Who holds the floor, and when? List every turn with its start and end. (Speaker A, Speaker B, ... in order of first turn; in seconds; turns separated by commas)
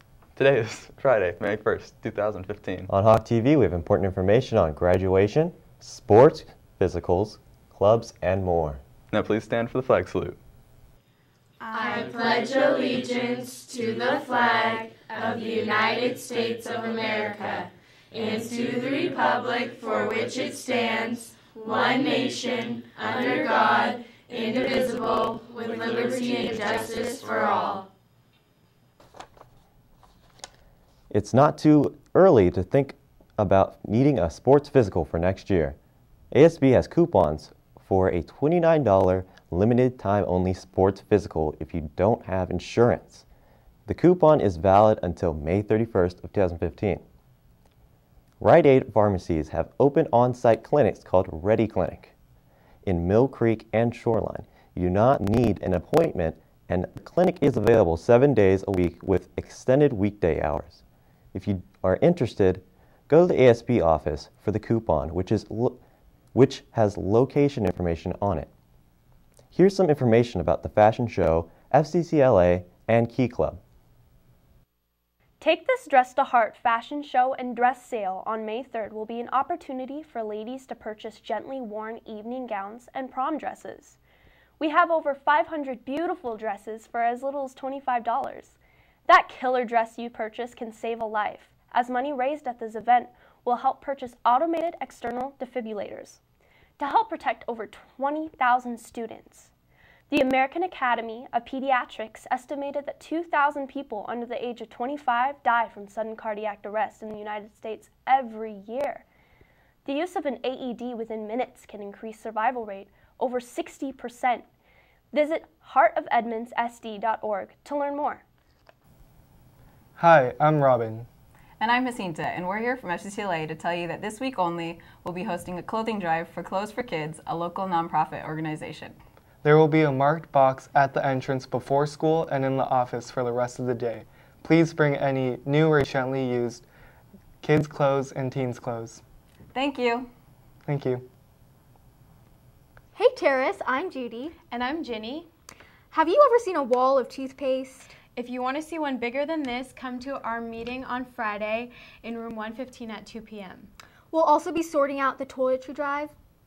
Speaker A: 0.4-2.9, Speaker B: 2.9-8.8, Speaker A: 9.1-10.4, Speaker C: 11.7-27.9, Speaker B: 31.1-35.8, Speaker B: 36.3-43.2, Speaker B: 43.9-47.0, Speaker B: 48.4-52.1, Speaker B: 52.8-65.8, Speaker B: 66.3-68.5, Speaker B: 69.5-73.6, Speaker D: 75.4-84.0, Speaker D: 84.6-96.2, Speaker D: 96.8-99.5, Speaker D: 100.1-109.0, Speaker D: 109.8-114.5, Speaker D: 115.1-118.2, Speaker E: 120.0-121.1, Speaker F: 121.6-129.0, Speaker E: 129.4-136.7, Speaker E: 137.4-139.0, Speaker F: 139.5-140.1, Speaker E: 140.7-141.0, Speaker G: 142.9-144.3, Speaker H: 144.5-145.3, Speaker G: 145.9-147.9, Speaker H: 148.1-153.7, Speaker G: 154.1-156.1